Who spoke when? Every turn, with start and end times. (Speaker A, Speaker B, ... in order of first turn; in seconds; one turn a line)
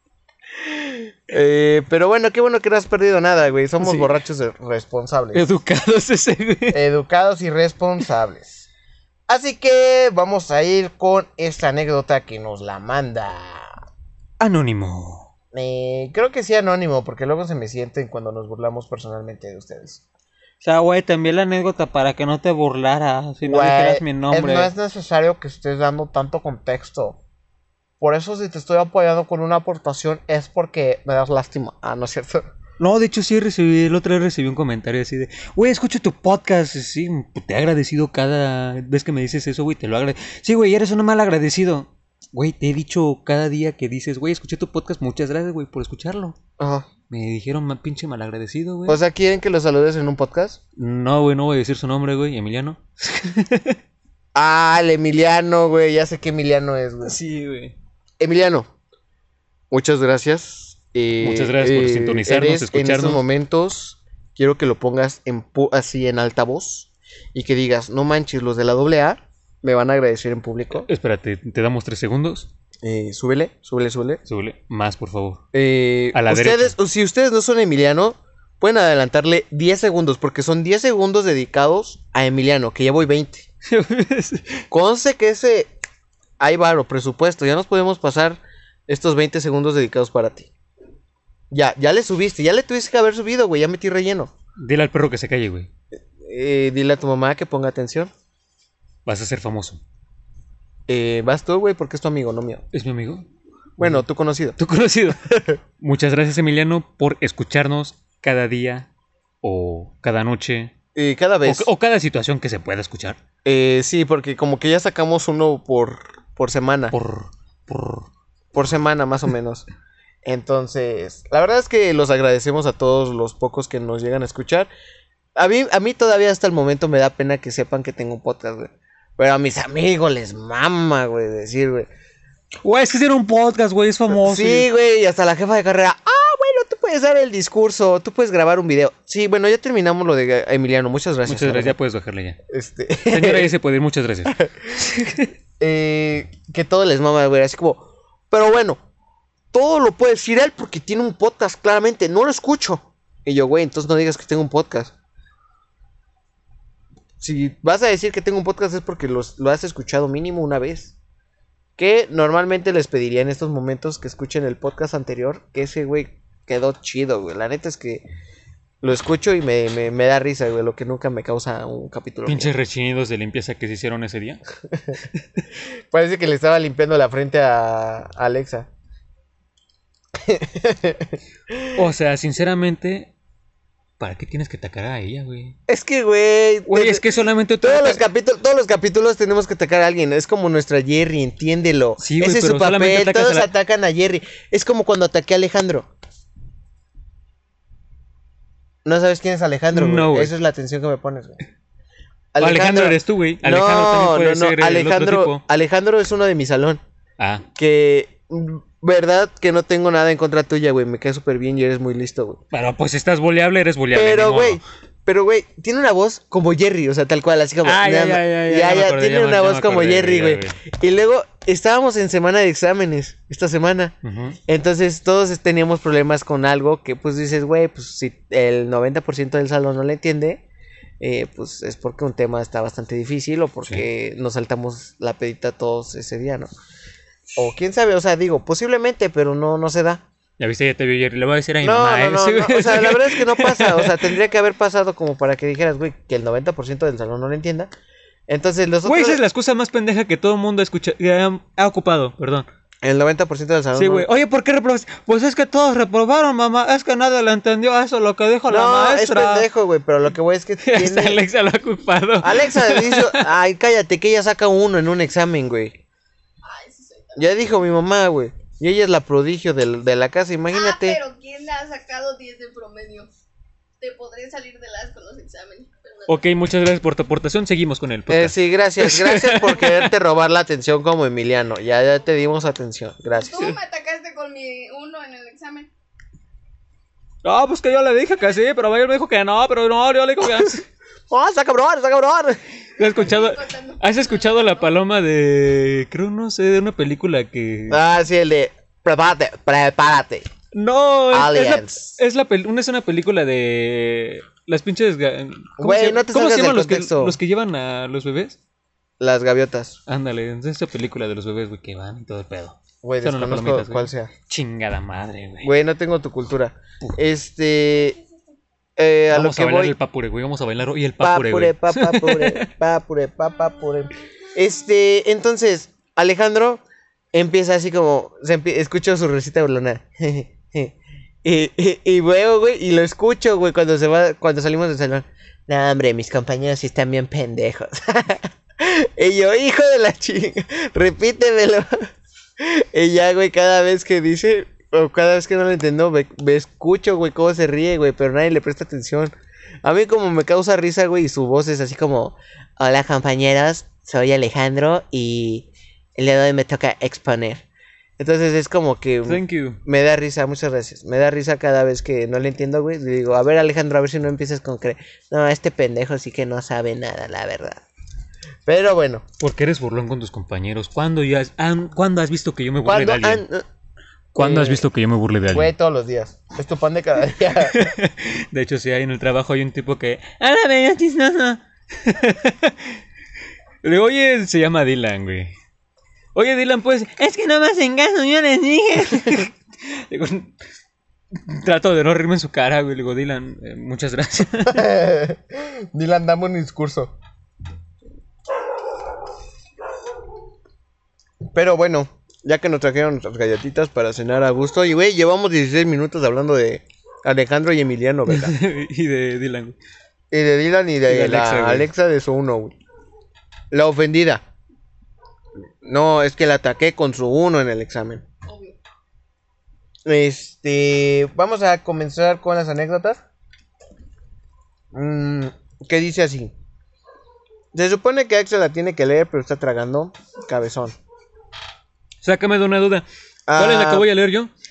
Speaker A: 0.7-5.4
Speaker B: 3.8-4.1
Speaker B: 5.3-6.8
Speaker A: 6.7-8.7
Speaker A: 9.3-13.7
Speaker B: 14.4-15.3
Speaker A: 15.5-20.0
Speaker B: 20.6-24.7
Speaker A: 23.4-27.2
Speaker A: 28.0-32.5
Speaker B: 32.8-46.4
Speaker A: 46.6-46.9
Speaker B: 47.1-49.0
Speaker A: 48.9-50.6
Speaker B: 50.8-53.8
Speaker A: 54.3-57.1
Speaker B: 57.0-57.7
Speaker A: 58.2-58.7
Speaker A: 59.7-70.9
Speaker B: 61.2-63.2
Speaker B: 70.8-72.5
Speaker A: 72.8-74.2
Speaker B: 74.2-75.4
Speaker A: 75.5-83.5
Speaker B: 76.1-76.8
Speaker B: 83.7-84.6
Speaker A: 84.7-85.7
Speaker A: 86.4-90.5
Speaker A: 91.5-94.3
Speaker B: 94.6-95.7
Speaker A: 96.2-98.1
Speaker B: 99.0-99.8
Speaker A: 100.9-102.6
Speaker B: 102.7-103.2
Speaker B: 103.8-104.0
Speaker A: 103.8-104.6
Speaker B: 104.6-105.2
Speaker A: 105.2-105.6
Speaker B: 105.8-108.9
Speaker B: 109.4-110.7
Speaker A: 110.9-111.7
Speaker B: 111.4-113.2
Speaker A: 113.4-116.9
Speaker B: 116.9-118.1
Speaker A: 118.5-119.7
Speaker A: 120.2-124.7
Speaker A: 125.3-131.9
Speaker B: 132.6-134.7
Speaker A: 134.1-141.8
Speaker B: 141.2-142.4
Speaker A: 142.5-143.5
Speaker B: 143.1-145.3
Speaker A: 145.6-148.8
Speaker A: 149.5-154.9
Speaker A: 157.2-160.9
Speaker A: 161.8-168.0
Speaker A: 168.8-172.5
Speaker B: 172.2-174.4
Speaker A: 174.7-175.0
Speaker A: 175.9-178.7
Speaker A: 180.1-181.7
Speaker B: 181.7-183.1
Speaker B: 184.0-185.6
Speaker A: 185.7-187.0
Speaker B: 186.7-188.0
Speaker A: 187.6-195.9
Speaker B: 192.0-193.5
Speaker A: 198.8-201.4
Speaker B: 199.7-200.3
Speaker A: 202.3-206.8
Speaker B: 202.4-205.4
Speaker B: 207.2-207.4
Speaker A: 207.6-212.4
Speaker B: 212.5-214.6
Speaker A: 213.9-223.9
Speaker B: 217.6-220.6
Speaker B: 224.0-224.4
Speaker A: 224.5-230.4
Speaker A: 231.0-236.5
Speaker A: 237.3-240.0
Speaker B: 240.4-244.1
Speaker A: 241.6-247.7
Speaker A: 248.3-249.2
Speaker B: 248.8-252.5
Speaker A: 252.8-254.1
Speaker B: 253.7-259.4
Speaker A: 258.5-261.2
Speaker B: 260.6-263.2
Speaker A: 262.2-265.8
Speaker C: 266.4-267.3
Speaker A: 267.1-271.0
Speaker C: 270.5-273.1
Speaker C: 273.8-276.3
Speaker B: 276.1-279.9
Speaker A: 278.1-283.5
Speaker C: 283.1-285.7
Speaker B: 287.2-290.6
Speaker A: 291.1-292.4
Speaker B: 292.8-297.8
Speaker C: 292.8-294.7
Speaker A: 297.7-300.3
Speaker B: 300.5-308.4
Speaker A: 301.1-302.0
Speaker A: 305.6-307.2
Speaker A: 309.0-309.8
Speaker B: 309.9-315.5
Speaker A: 312.8-314.1
Speaker A: 315.4-318.0
Speaker A: 318.8-319.7
Speaker B: 319.1-322.5
Speaker A: 321.0-326.6
Speaker A: 327.1-341.9
Speaker A: 342.4-349.1
Speaker A: 349.6-357.4
Speaker A: 358.0-367.6
Speaker B: 359.0-359.6
Speaker A: 368.4-369.0
Speaker B: 369.2-373.2
Speaker A: 372.6-373.4
Speaker B: 374.1-375.5
Speaker A: 374.2-374.6
Speaker A: 375.3-377.7
Speaker B: 377.4-382.8
Speaker B: 383.6-385.3
Speaker B: 386.1-390.3
Speaker B: 391.1-394.6
Speaker A: 394.5-396.9
Speaker A: 401.3-408.4
Speaker B: 408.1-409.6
Speaker A: 410.1-412.5
Speaker B: 410.9-411.7
Speaker A: 413.5-414.2
Speaker A: 415.6-418.0
Speaker C: 418.2-418.6
Speaker A: 419.8-423.0
Speaker A: 424.7-426.3
Speaker A: 427.5-430.8
Speaker B: 432.0-434.3
Speaker A: 433.3-433.9